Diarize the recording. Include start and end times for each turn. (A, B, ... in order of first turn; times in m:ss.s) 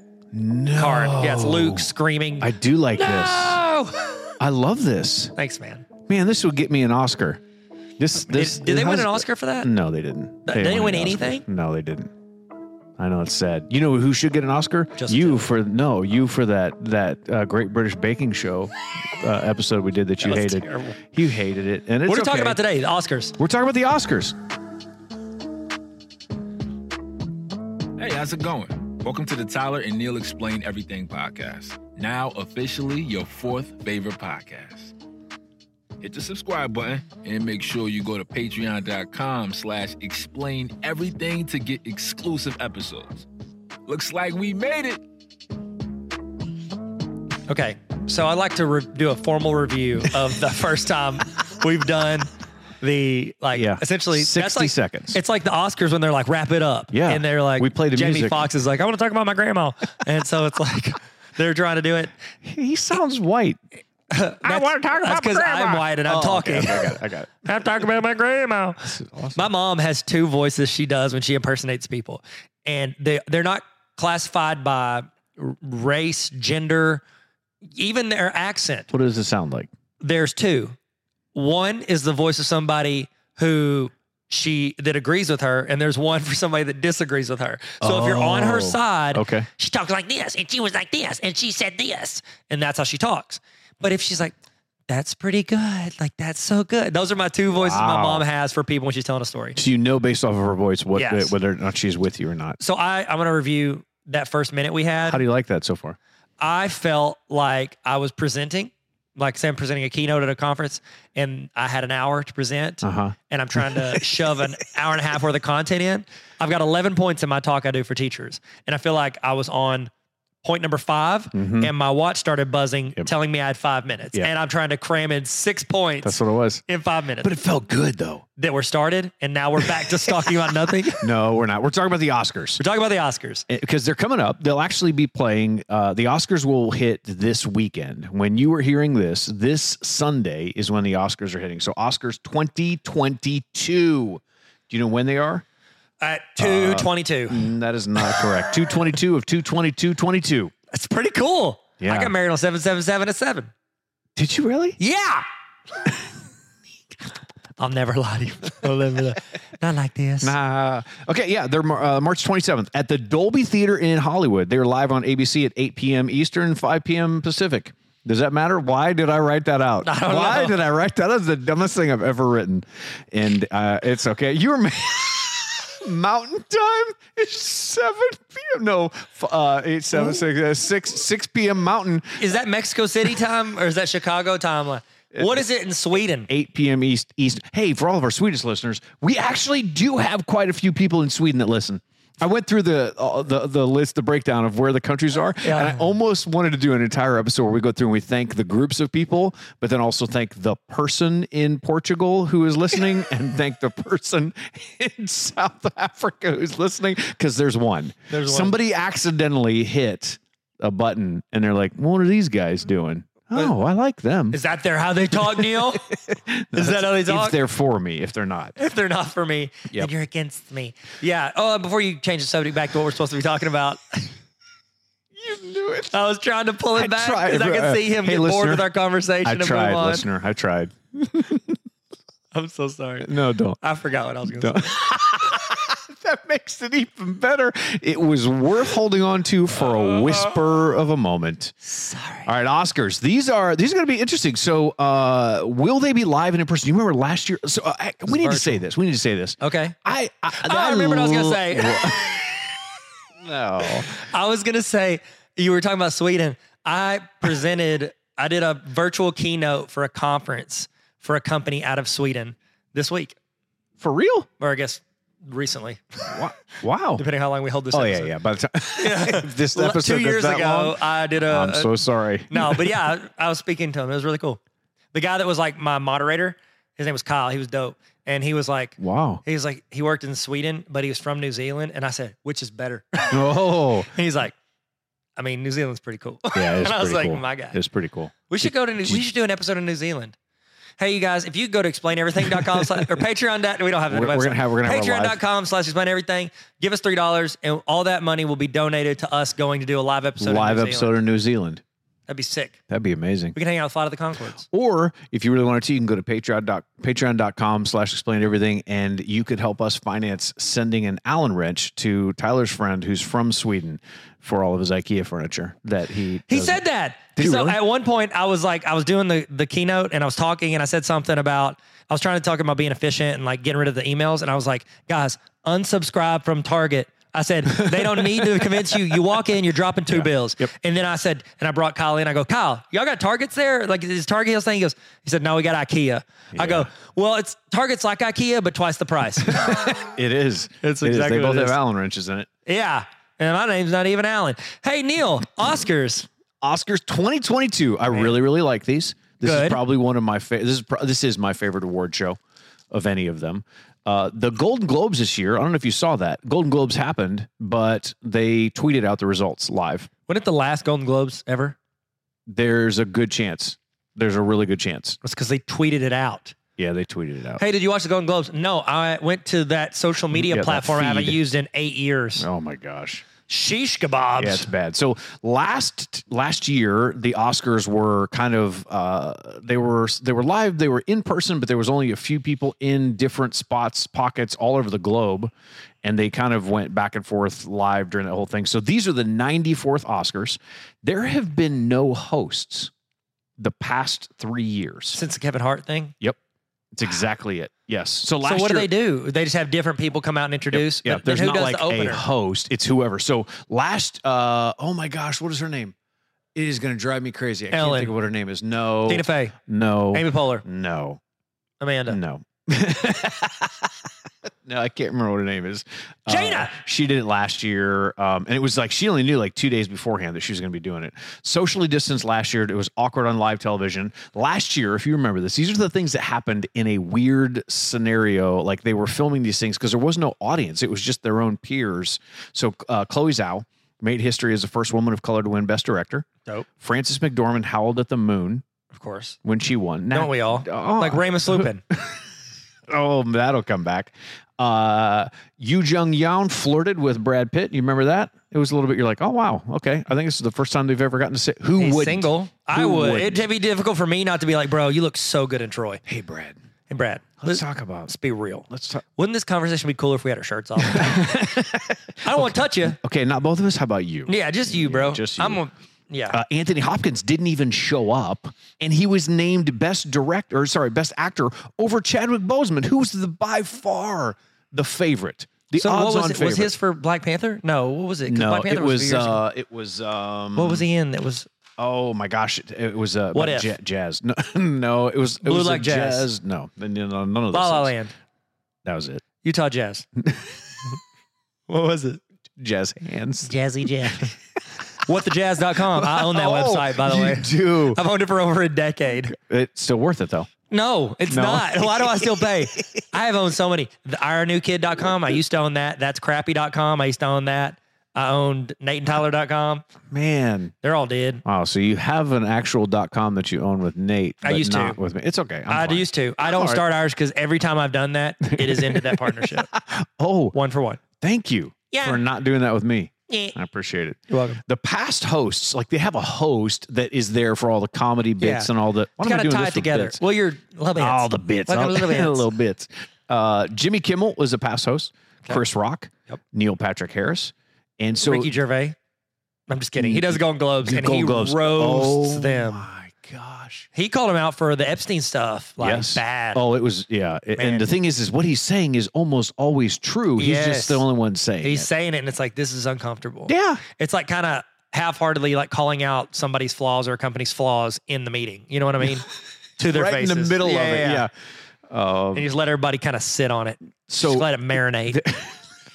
0:00.3-0:03.6 A
0:00.7-0:04.3 B
0:04.4-0:05.3 A
0:05.4-0:05.8 B
0:06.1-0:07.4 A
0:08.0-0:12.1 A
0:08.2-0:09.7 B
0:10.5-0:11.4 B
0:13.0-0:22.6 A
0:14.9-0:15.5 B
0:20.2-0:21.0 B
0:22.0-0:23.4 B
0:23.4-0:24.3 A
0:28.0-0:34.9 C
0:36.0-0:43.2 C
0:43.8-0:45.0 C
0:47.5-0:52.3 B
0:52.8-1:02.1 B
0:53.5-0:55.2 A
0:56.9-0:58.5 A
1:02.4-1:03.6 A
1:04.1-1:17.0 B
1:04.4-1:07.3 A
1:08.8-1:09.4 A
1:17.7-1:18.9 B
1:18.9-1:19.7 A
1:20.0-1:20.8 B
1:21.3-1:34.3 B
1:27.8-1:29.5 A
1:34.9-1:39.6 B
1:37.5-1:38.2 A
1:39.6-1:42.6 A
1:40.9-1:41.3 B
1:42.6-1:45.2 B
1:45.0-1:46.0 A
1:46.4-1:59.9 B
1:52.8-1:54.0 A
2:00.4-2:07.3 B
2:01.3-2:01.7 A
2:06.0-2:06.6 A
2:07.2-2:08.2 A
2:08.4-2:11.0 B
2:09.6-2:10.1 A
2:11.0-2:12.6 A
2:12.6-2:13.4 B
2:13.5-2:25.4 A
2:26.0-2:27.5 B
2:26.4-2:30.5 A
2:28.0-2:28.3 B
2:30.7-2:33.5 B
2:31.8-2:32.1 A
2:34.2-2:34.8 A
2:34.8-2:35.2 B
2:37.6-2:40.3 B
2:40.2-3:02.3 A
2:49.8-2:50.6 B
3:02.2-3:06.3 B
3:05.1-3:05.4 A
3:06.3-3:34.4 A
3:15.4-3:15.9 B
3:28.1-3:28.6 B
3:34.3-3:35.8 B
3:35.2-3:38.6 A
3:36.5-3:37.4 B
3:38.6-3:44.1 B
3:45.1-3:45.9 A
3:45.9-3:50.1 B
3:46.7-3:48.7 A
3:49.2-3:51.6 A
3:52.3-3:54.8 B
3:53.0-3:53.6 A
3:54.3-4:01.5 A
3:59.6-4:00.4 B
4:01.6-4:02.3 B
4:02.2-4:12.6 A
4:08.1-4:08.6 B
4:09.4-4:09.8 B
4:10.3-4:12.1 B
4:13.2-4:13.9 A
4:13.9-4:23.2 B
4:23.8-4:24.3 A
4:24.4-4:26.2 B
4:26.1-4:27.0 A
4:27.0-4:28.1 B
4:27.7-4:32.8 A
4:28.7-4:31.7 B
4:32.3-4:34.4 B
4:34.9-4:44.3 B
4:38.8-4:39.2 A
4:43.1-4:43.9 A
4:45.2-4:47.6 B
4:46.3-4:49.0 A
4:48.3-4:50.1 B
4:50.8-5:01.0 B
4:52.3-4:52.9 A
4:53.9-4:55.2 A
5:00.2-5:01.6 A
5:02.1-5:02.6 B
5:02.7-5:03.4 A
5:03.3-5:04.4 B
5:04.5-5:16.6 A
5:16.3-5:39.8 B
5:17.2-5:17.6 A
5:27.5-5:29.0 A
5:29.9-5:30.5 A
5:36.3-5:36.7 A
5:39.3-5:42.3 A
5:40.6-5:41.6 B
5:42.4-5:46.1 B
5:46.4-5:52.2 A
5:47.9-5:48.2 B
5:49.2-5:49.6 B
5:52.7-5:59.9 A
6:00.1-6:01.6 B
6:02.3-6:05.0 A
6:05.0-6:06.3 B
6:06.6-6:07.4 A
6:07.4-6:12.3 B
6:10.1-6:11.2 A
6:12.2-6:13.0 A
6:13.3-6:14.5 B
6:14.2-6:25.3 A
6:25.8-6:32.7 A
6:33.4-6:35.0 A
6:34.9-6:35.9 B
6:36.7-6:38.7 A
6:38.2-6:42.0 B
6:40.5-6:45.7 A
6:46.3-6:51.0 A
6:47.5-6:47.9 B
6:48.9-6:49.4 B
6:49.9-6:50.4 B
6:51.6-6:52.0 B
6:51.9-7:18.4 A
6:56.1-6:56.5 B
7:18.7-7:19.2 B
7:19.2-7:22.0 A
7:19.9-7:21.6 B
7:22.7-7:33.2 A
7:31.6-7:35.8 B
7:35.8-7:36.4 A
7:36.7-7:41.1 B
7:37.2-7:37.9 A
7:38.5-7:38.8 A
7:40.6-7:45.4 A
7:42.0-7:42.8 B
7:44.1-7:46.2 B
7:46.1-7:56.5 A
7:55.6-7:59.2 B
7:58.0-8:00.6 A
8:00.4-8:01.3 B
8:01.6-8:07.7 A
8:03.1-8:03.5 B
8:05.2-8:06.1 B
8:07.3-8:07.9 B
8:08.6-8:09.0 A
8:09.2-8:09.8 B
8:10.0-8:10.3 A
8:11.5-8:12.0 B
8:12.4-8:14.1 A
8:13.2-8:14.1 B
8:14.8-8:19.1 B
8:15.6-8:17.8 A
8:19.1-8:20.3 A
8:20.5-8:29.7 B
8:21.1-8:22.3 A
8:29.9-8:30.5 A
8:30.6-8:31.2 B
8:31.2-8:36.6 A
8:34.2-8:34.8 B
8:35.5-8:39.5 B
8:38.2-8:40.3 A
8:40.3-8:40.8 B
8:41.0-8:50.0 A
8:41.7-8:42.0 B
8:43.1-8:43.4 B
8:44.1-8:44.4 B
8:48.2-8:52.3 B
8:50.8-8:58.3 A
8:58.0-8:58.8 B
8:59.5-9:02.7 B
8:59.8-9:03.7 A
9:03.7-9:06.4 B
9:05.6-9:11.7 A
9:07.4-9:07.7 B
9:10.2-9:10.8 B
9:11.4-9:21.0 B
9:13.3-9:13.6 A
9:19.6-9:21.1 A
9:21.7-9:22.3 A
9:22.1-9:25.0 B
9:23.9-9:25.4 A